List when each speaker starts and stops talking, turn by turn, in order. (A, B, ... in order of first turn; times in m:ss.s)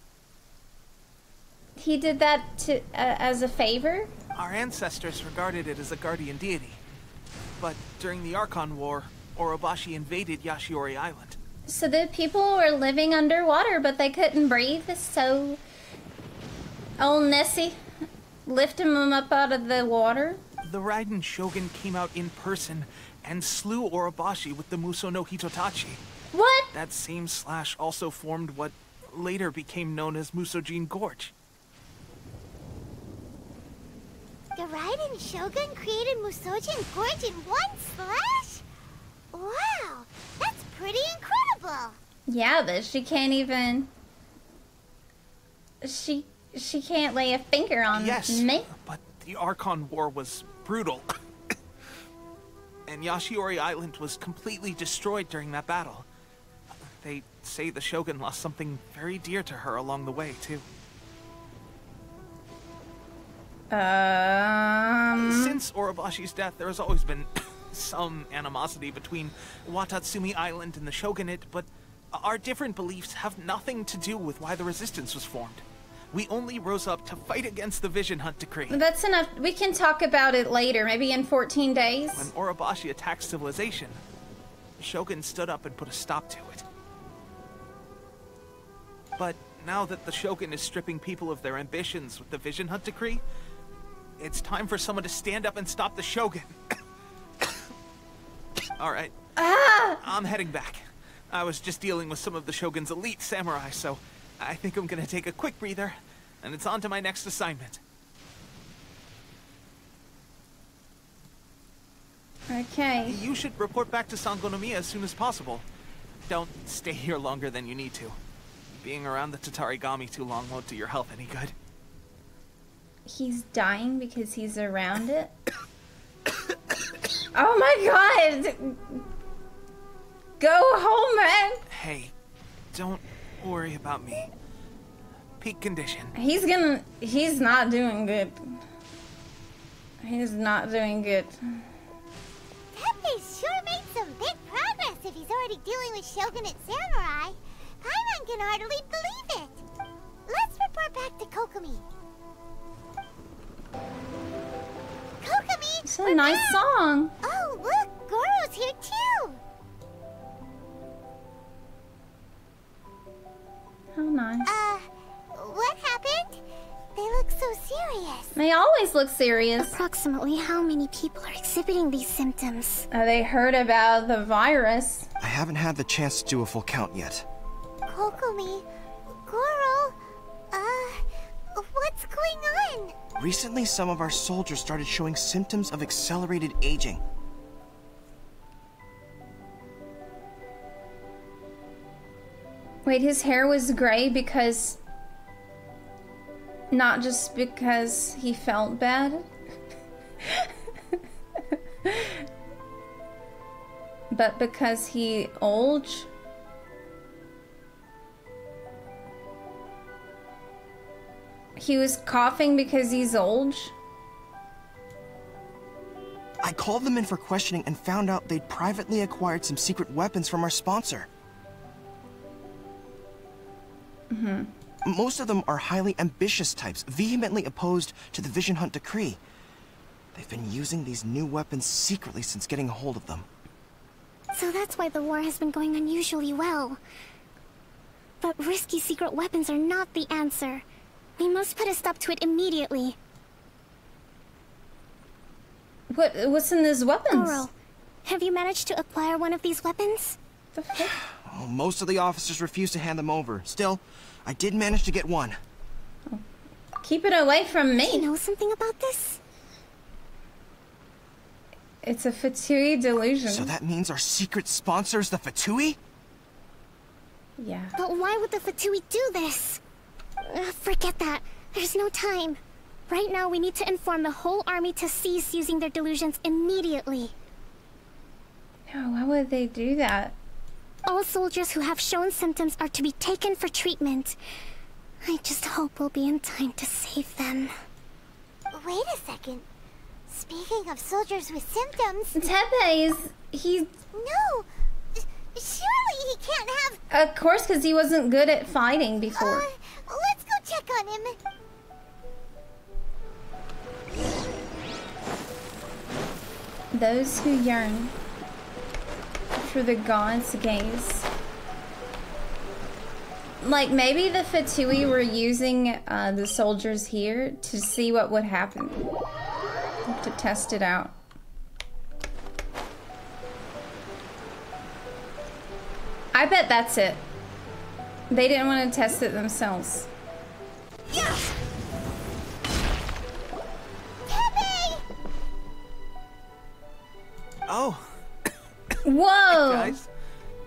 0:01.8-0:04.1 A
0:04.3-0:06.8 B
0:07.6-0:11.4 B
0:11.7-0:15.6 A
0:17.0-0:17.8 A
0:18.4-0:20.4 A
0:20.6-0:26.0 B
0:26.3-0:26.7 A
0:26.7-0:31.3 B
0:34.6-0:38.6 C
0:39.3-0:42.0 C
0:42.3-0:43.9 A
0:45.8-0:48.7 A
0:47.9-0:51.2 B
0:52.9-0:56.0 B
0:56.9-1:00.6 B
1:03.7-1:05.5 A
1:05.2-1:18.8 B
1:18.7-1:22.3 A
1:22.1-1:24.0 B
1:24.8-1:26.6 B
1:29.2-1:33.2 B
1:34.2-1:36.5 B
1:38.8-1:39.1 B
1:39.4-1:40.0 A
1:40.0-1:47.8 B
1:52.5-1:53.2 A
1:53.1-1:55.6 B
1:56.3-1:58.2 B
1:58.7-2:01.5 B
2:03.0-2:05.3 A
2:07.3-2:09.0 A
2:10.4-2:11.6 A
2:11.7-2:12.1 B
2:12.7-2:14.3 B
2:15.4-2:16.1 B
2:16.1-2:18.6 A
2:20.0-2:21.6 A
2:22.7-2:29.6 C
2:30.3-2:31.8 C
2:35.2-2:36.6 C
2:35.8-2:37.1 A
2:37.2-2:39.4 C
2:44.0-2:44.5 A
2:44.4-2:46.4 C
2:46.9-2:48.3 C
2:48.3-2:49.8 A
2:49.6-2:52.8 D
2:52.9-2:55.1 A
2:55.2-2:57.2 E
2:57.9-2:58.6 C
2:59.2-3:00.0 C
3:00.5-3:02.9 C
3:03.2-3:07.0 E
3:12.8-3:14.8 A
3:16.7-3:19.3 A
3:21.8-3:22.2 A
3:24.1-3:26.1 A
3:31.6-3:33.7 A
3:36.4-3:41.1 E
3:44.1-3:44.5 A
3:44.8-3:49.2 E
3:50.1-3:53.2 E
3:54.3-3:56.8 D
3:58.2-4:00.6 D
4:01.2-4:03.0 D
4:05.9-4:07.4 A
4:07.1-4:07.5 D
4:08.0-4:10.2 D
4:10.6-4:11.0 A
4:11.1-4:15.4 E
4:16.8-4:18.1 A
4:17.8-4:19.2 D
4:21.8-4:23.5 A
4:23.3-4:25.8 E
4:27.4-4:27.8 A
4:27.8-4:29.6 D
4:30.2-4:37.1 D
4:38.7-4:40.1 A
4:40.8-4:44.2 D
4:45.0-4:47.5 D
4:48.5-4:49.4 C
4:50.1-4:52.2 C
4:52.2-4:53.7 A
4:53.9-4:56.8 C
4:56.9-4:59.5 A
4:59.2-5:01.2 C
5:06.7-5:07.9 A
5:09.4-5:11.1 A
5:13.4-5:18.8 A
5:19.9-5:20.9 A
5:26.1-5:27.0 A
5:28.1-5:29.9 A
5:30.9-5:31.3 C
5:34.1-5:34.8 C
5:37.5-5:37.9 B
5:38.8-5:39.8 A
5:39.3-5:39.9 B